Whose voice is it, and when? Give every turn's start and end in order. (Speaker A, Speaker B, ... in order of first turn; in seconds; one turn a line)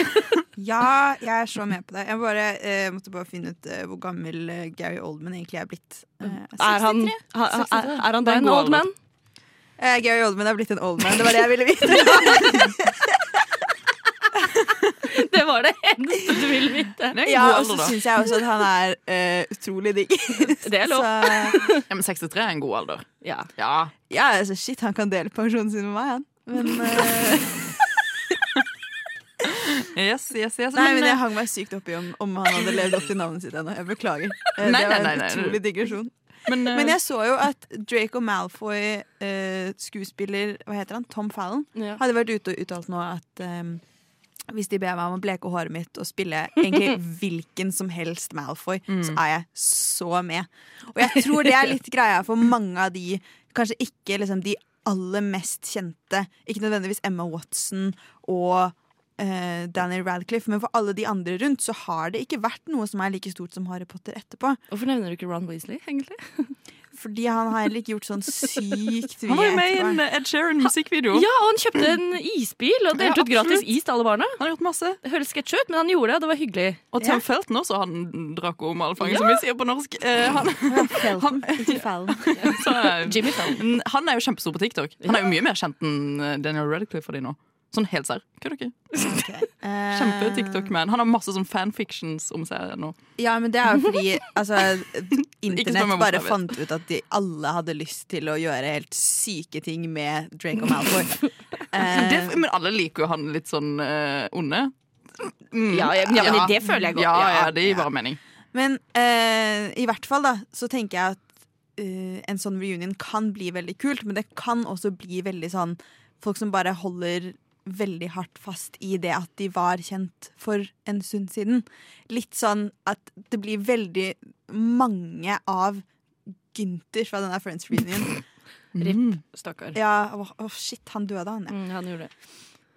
Speaker A: 0.6-7.2
Speaker B: 6.6-8.9
Speaker C: 7.5-8.8
Speaker A: 9.8-13.4
Speaker B: 12.0-12.5
Speaker B: 15.1-17.1
Speaker C: 17.1-18.0
Speaker A: 17.2-21.7
Speaker B: 20.6-21.8
Speaker C: 21.9-23.9
Speaker B: 23.2-23.5
Speaker A: 24.1-27.8
Speaker C: 29.4-31.2
Speaker A: 30.7-43.8
Speaker C: 34.6-35.6
Speaker C: 36.5-37.0
Speaker B: 41.8-42.0
Speaker A: 44.5-64.6
Speaker C: 48.9-49.2
Speaker B: 64.7-66.6
Speaker A: 66.9-70.0
Speaker C: 69.3-71.3
Speaker B: 71.1-74.4
Speaker C: 73.0-73.7
Speaker C: 74.4-75.0
Speaker B: 75.0-76.9
Speaker C: 76.9-81.8
Speaker B: 79.0-79.4
Speaker A: 80.7-82.6
Speaker B: 82.4-83.6
Speaker C: 82.4-88.8
Speaker A: 89.0-90.7
Speaker C: 89.9-93.0
Speaker A: 93.2-102.4
Speaker C: 95.5-96.4
Speaker C: 101.8-108.2
Speaker B: 105.7-107.8
Speaker A: 108.5-125.8
Speaker A: 126.5-128.1
Speaker C: 128.8-129.2
Speaker B: 128.8-129.8
Speaker A: 129.7-131.6
Speaker B: 131.5-132.1